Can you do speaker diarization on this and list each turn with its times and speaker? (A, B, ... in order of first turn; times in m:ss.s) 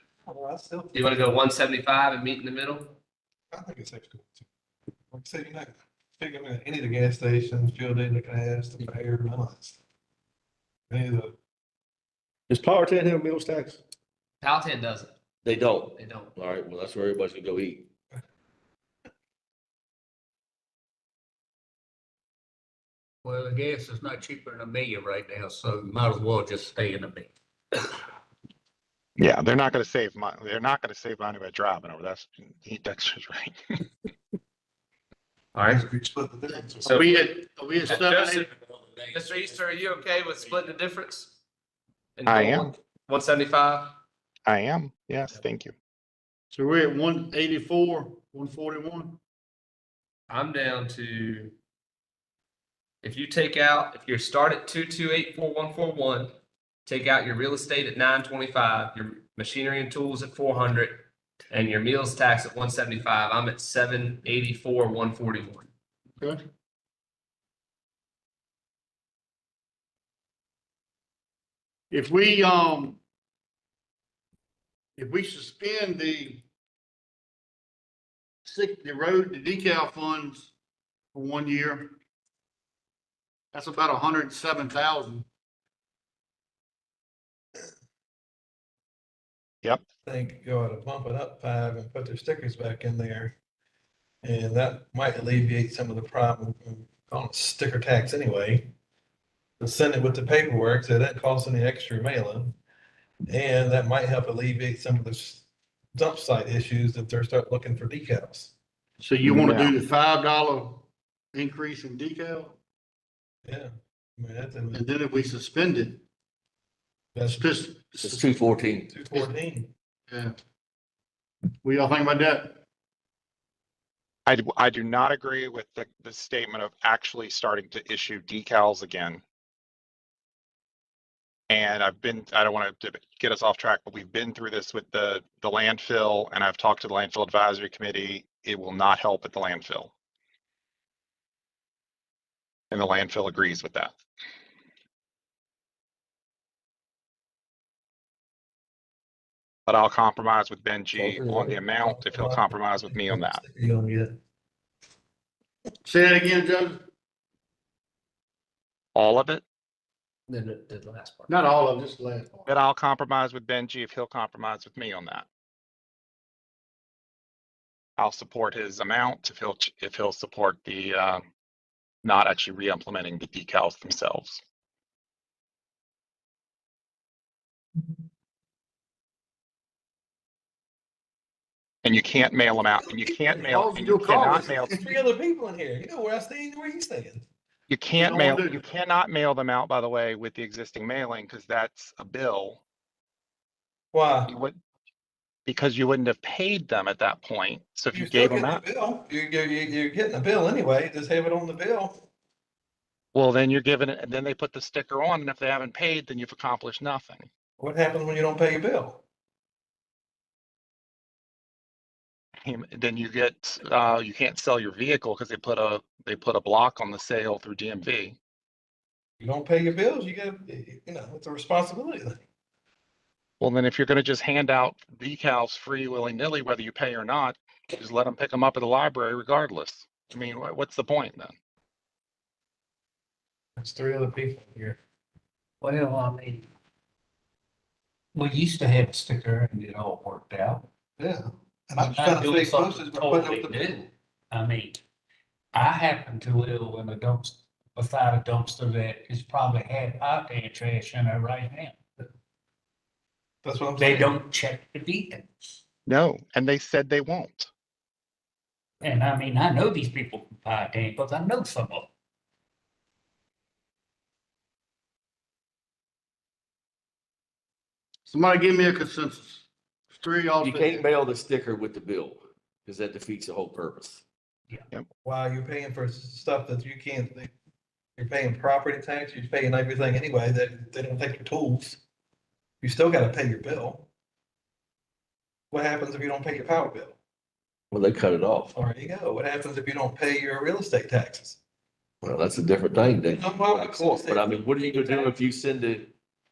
0:00.3-0:01.3 A
0:00.9-0:03.0 B
0:03.5-0:04.5 A
0:05.1-0:09.8 A
0:10.9-0:11.3 A
0:12.5-0:13.8 C
0:14.4-0:15.1 B
0:15.4-0:17.9 C
0:16.0-0:16.3 B
0:23.2-0:27.3 D
0:29.2-0:33.6 E
0:35.6-0:35.9 B
0:35.7-0:37.2 A
0:36.8-0:37.1 B
0:36.8-0:38.5 F
0:37.9-0:38.5 B
0:38.6-0:39.4 D
0:39.1-0:41.4 B
0:42.2-0:44.0 B
0:42.3-0:42.7 E
0:44.5-0:45.7 E
0:46.5-0:49.2 F
0:50.3-0:51.5 B
0:53.0-0:56.4 B
0:56.9-1:05.7 B
1:11.9-1:13.0 F
1:15.0-1:16.4 F
1:18.4-1:20.5 F
1:21.1-1:21.9 F
1:23.5-1:25.3 F
1:30.1-1:33.4 A
1:34.2-1:38.7 A
1:39.6-1:42.6 A
1:43.3-1:48.5 A
1:49.0-1:52.6 F
1:49.2-1:49.8 E
1:53.4-1:54.8 A
1:54.7-1:56.0 F
1:57.2-1:57.5 A
1:57.3-1:58.3 F
1:58.0-1:58.9 C
1:58.9-1:59.7 A
2:00.1-2:00.4 F
2:01.6-2:02.6 F
2:04.3-2:09.2 E
2:11.5-2:19.9 E
2:22.7-2:24.0 E
2:29.7-2:33.4 E
2:31.0-2:31.4 C
2:31.2-2:34.2 A
2:35.8-2:36.8 F
2:39.0-2:39.4 E
2:40.6-2:41.0 D
2:41.3-2:42.5 F
2:42.5-2:45.3 E
2:48.0-2:51.3 E
2:52.0-2:54.4 E
3:01.8-3:04.8 E
3:02.9-3:03.6 A
3:03.4-3:04.9 F
3:04.4-3:07.2 A
3:07.7-3:12.6 E
3:08.0-3:08.7 F
3:13.9-3:14.4 A
3:14.3-3:14.6 E
3:15.5-3:18.7 E
3:17.9-3:22.0 A
3:23.1-3:27.3 E
3:27.6-3:29.0 A
3:32.4-3:38.2 E
3:39.2-3:42.2 A
3:43.4-3:51.4 E
3:53.6-3:54.8 A
3:55.6-3:56.5 D
3:58.1-4:00.7 D
4:01.0-4:03.6 A
4:01.8-4:04.8 D
4:05.5-4:11.8 D
4:13.4-4:14.2 A
4:13.8-4:15.6 D
4:15.9-4:17.5 E
4:18.8-4:21.9 D
4:28.1-4:30.9 F
4:30.4-4:34.0 C
4:35.0-4:37.3 A
4:38.0-4:41.8 A
4:42.6-4:43.9 A
4:45.5-4:47.0 A
4:47.7-4:48.5 C
4:48.5-4:51.4 A
4:52.0-4:55.9 C
4:53.1-4:54.4 A